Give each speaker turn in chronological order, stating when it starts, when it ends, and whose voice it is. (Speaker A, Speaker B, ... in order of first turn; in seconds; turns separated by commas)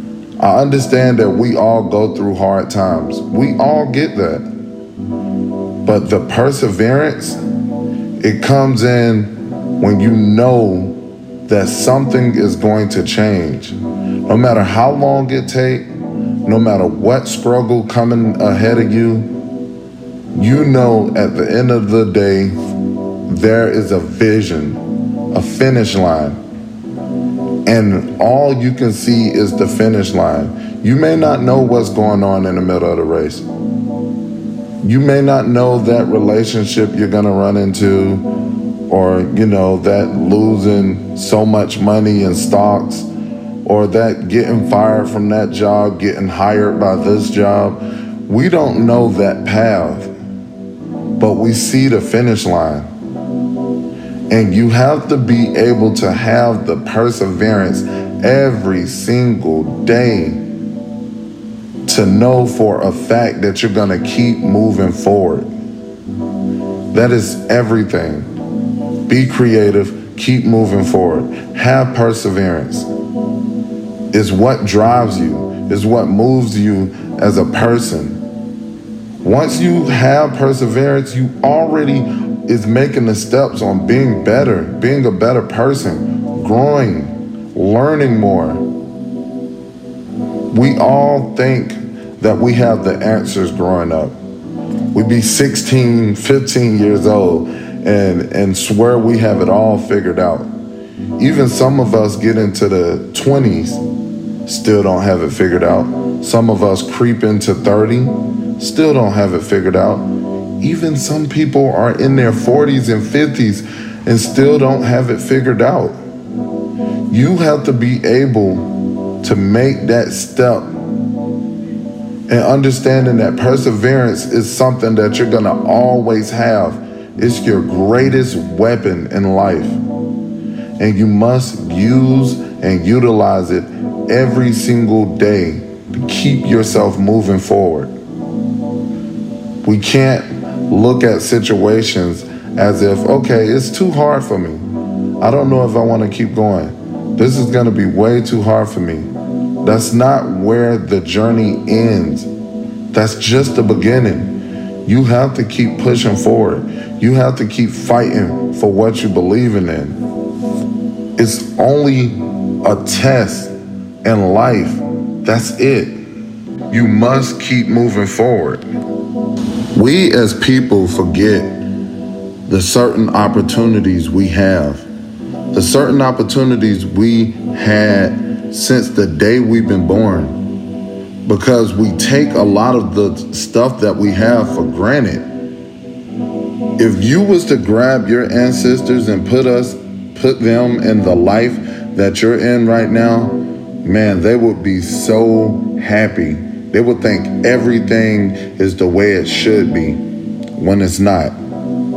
Speaker A: 0.4-4.5, Speaker A: 5.8-7.4, Speaker A: 8.2-15.9, Speaker A: 16.4-19.3, Speaker A: 20.3-22.5, Speaker A: 23.2-26.4, Speaker A: 27.6-33.5, Speaker A: 34.8-38.3, Speaker A: 38.9-43.1, Speaker A: 43.6-50.1, Speaker A: 51.2-52.9, Speaker A: 54.3-60.4, Speaker A: 61.9-65.5, Speaker A: 66.9-68.3, Speaker A: 69.1-72.9, Speaker A: 74.1-78.2, Speaker A: 79.2-88.6, Speaker A: 90.5-94.1, Speaker A: 94.9-100.5, Speaker A: 101.2-103.8, Speaker A: 104.5-110.1, Speaker A: 110.6-116.0, Speaker A: 117.1-120.7, Speaker A: 122.3-129.8, Speaker A: 130.8-137.9, Speaker A: 139.6-144.6, Speaker A: 145.2-152.3, Speaker A: 152.9-160.0, Speaker A: 161.2-165.9, Speaker A: 166.7-168.6, Speaker A: 169.7-171.5, Speaker A: 172.5-174.8, Speaker A: 175.5-180.4, Speaker A: 181.2-185.2, Speaker A: 186.8-200.0, Speaker A: 200.5-201.3